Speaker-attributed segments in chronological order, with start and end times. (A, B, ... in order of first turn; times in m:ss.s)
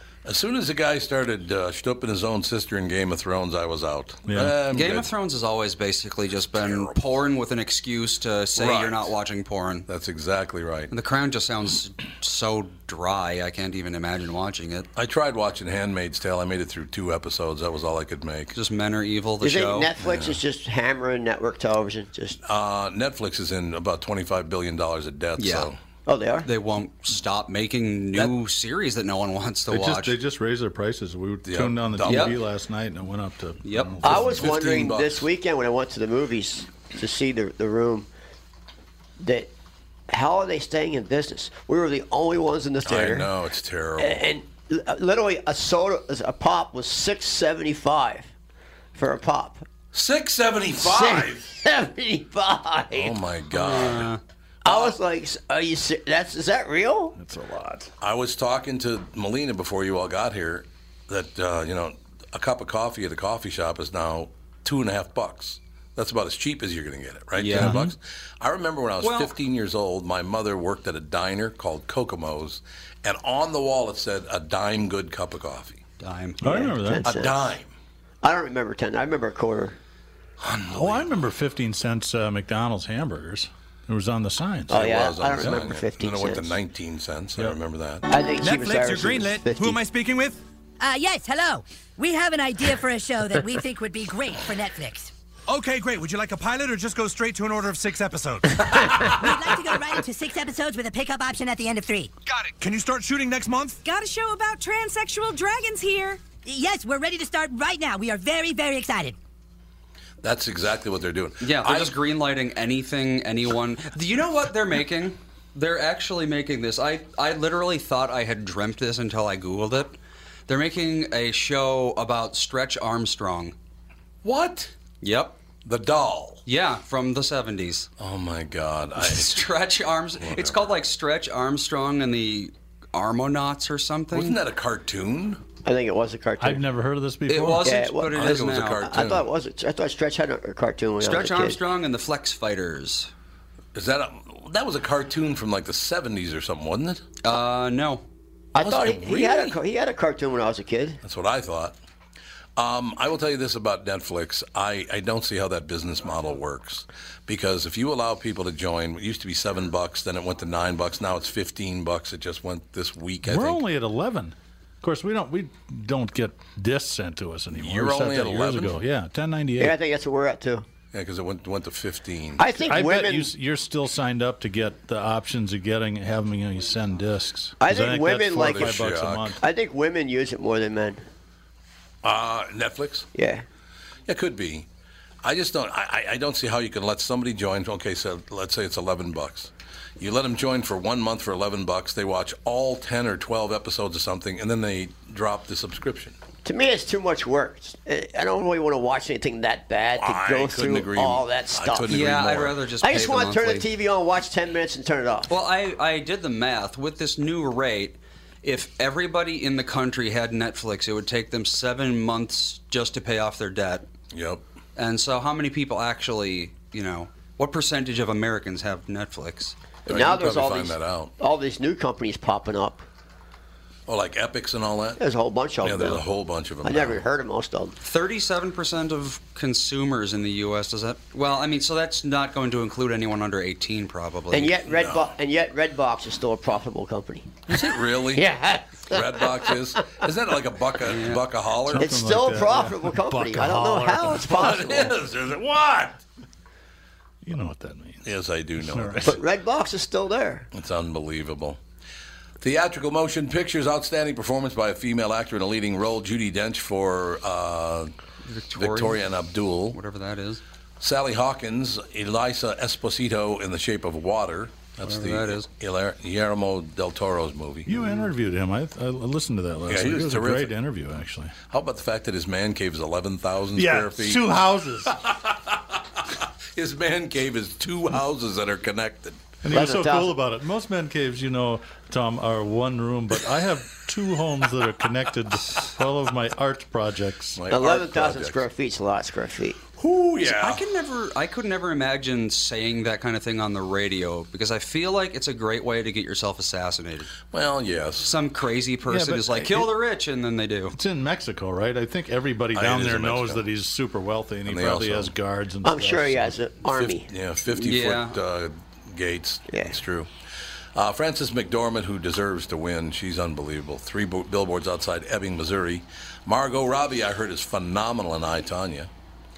0:00.2-0:05.1 A
0:04.3-0:04.5 B
0:04.7-0:09.9 C
0:06.6-0:06.9 A
0:08.6-0:09.1 A
0:09.9-0:10.9 A
0:10.9-0:14.9 C
0:15.0-0:18.5 A
0:18.5-0:19.9 C
0:19.4-0:22.4 D
0:20.0-0:20.4 A
0:22.4-0:25.8 A
0:25.4-0:25.7 C
0:26.0-0:26.5 D
0:26.4-0:30.2 C
0:29.7-0:34.6 B
0:31.4-0:32.3 A
0:32.0-0:32.4 C
0:33.6-0:34.0 C
0:34.0-0:38.1 D
0:34.0-0:35.3 A
0:39.2-0:39.5 D
0:40.1-0:43.3 D
0:42.8-0:44.2 A
0:44.0-0:48.3 D
0:48.9-0:49.6 D
0:49.9-0:51.4 A
0:50.8-0:53.2 D
0:52.9-0:54.1 A
0:53.5-0:54.2 C
0:54.6-0:57.2 D
0:54.7-0:54.9 A
0:57.2-0:57.9 B
0:58.0-1:15.8 A
1:07.4-1:07.8 C
1:07.6-1:07.9 B
1:09.0-1:09.3 C
1:16.0-1:16.4 C
1:16.4-1:17.1 B
1:16.4-1:17.4 D
1:17.0-1:17.7 A
1:18.2-1:19.8 D
1:20.4-1:21.1 A
1:20.7-1:24.8 B
1:24.7-1:26.6 D
1:24.7-1:28.0 A
1:28.1-1:29.8 D
1:28.4-1:30.4 E
1:30.8-1:35.1 F
1:35.5-1:39.1 E
1:39.0-1:42.1 F
1:42.3-1:43.8 E
1:43.8-1:46.2 G
1:46.4-1:49.2 F
1:50.2-1:51.9 A
1:51.4-1:59.9 C
2:00.5-2:03.5 C
2:04.2-2:04.7 A
2:05.0-2:05.4 C
2:05.6-2:06.4 A
2:06.4-2:07.9 C
2:08.0-2:09.4 A
2:09.0-2:14.4 C
2:10.2-2:10.6 A
2:14.1-2:15.4 A
2:15.6-2:16.6 D
2:16.4-2:17.8 B
2:17.3-2:18.8 C
2:17.6-2:21.6 D
2:18.1-2:19.3 A
2:21.0-2:23.1 C
2:23.7-2:27.0 A
2:27.2-2:28.0 C
2:28.5-2:31.0 D
2:28.6-2:29.6 A
2:31.0-2:31.8 A
2:32.6-2:43.6 A
2:43.2-2:49.8 B
2:47.5-2:48.8 A
2:49.6-2:50.6 D
2:50.9-2:52.4 A
2:52.4-2:53.3 D
2:52.7-2:59.4 B
2:57.6-2:58.8 D
2:58.4-2:59.4 A
2:59.4-3:01.0 D
3:02.0-3:03.1 A
3:03.1-3:03.4 D
3:04.1-3:04.7 A
3:05.2-3:16.1 A
3:16.4-3:21.9 D
3:20.0-3:22.6 A
3:21.9-3:23.7 C
3:22.8-3:25.3 D
3:25.3-3:33.9 C
3:34.1-3:34.4 A
3:34.8-3:39.5 C
3:39.8-3:41.1 A
3:39.9-3:42.8 D
3:43.9-3:45.0 A
3:45.0-3:46.0 D
3:45.6-3:47.0 A
3:46.6-3:47.7 D
3:47.8-3:54.6 C
3:54.3-3:57.3 D
3:54.6-3:55.1 A
3:57.5-3:58.3 A
3:58.1-3:59.5 D
3:58.9-4:01.9 A
4:00.9-4:01.2 C
4:01.6-4:04.5 B
4:01.8-4:04.9 D
4:04.1-4:06.0 A
4:07.2-4:08.0 B
4:08.0-4:09.2 A
4:08.6-4:09.2 B
4:09.0-4:10.5 D
4:10.5-4:11.6 A
4:12.4-4:17.9 A
4:18.2-4:19.0 C
4:18.5-4:19.8 A
4:19.7-4:20.4 C
4:20.8-4:27.7 A
4:24.8-4:25.5 C
4:27.6-4:31.3 B
4:29.7-4:30.5 A
4:31.5-4:34.2 A
4:33.5-4:35.0 B
4:34.9-4:39.2 A
4:39.4-4:47.4 B
4:39.5-4:40.1 D
4:47.4-4:48.4 A
4:47.5-4:49.6 D
4:49.8-4:50.6 A
4:50.2-4:57.1 C
4:57.3-4:58.1 A
4:58.0-5:00.7 C
4:58.9-4:59.7 B
5:00.7-5:06.4 B
5:02.5-5:03.4 A
5:04.5-5:05.1 A
5:05.6-5:07.1 D
5:06.6-5:10.1 A
5:07.5-5:08.2 C
5:09.5-5:09.8 D
5:10.7-5:18.9 A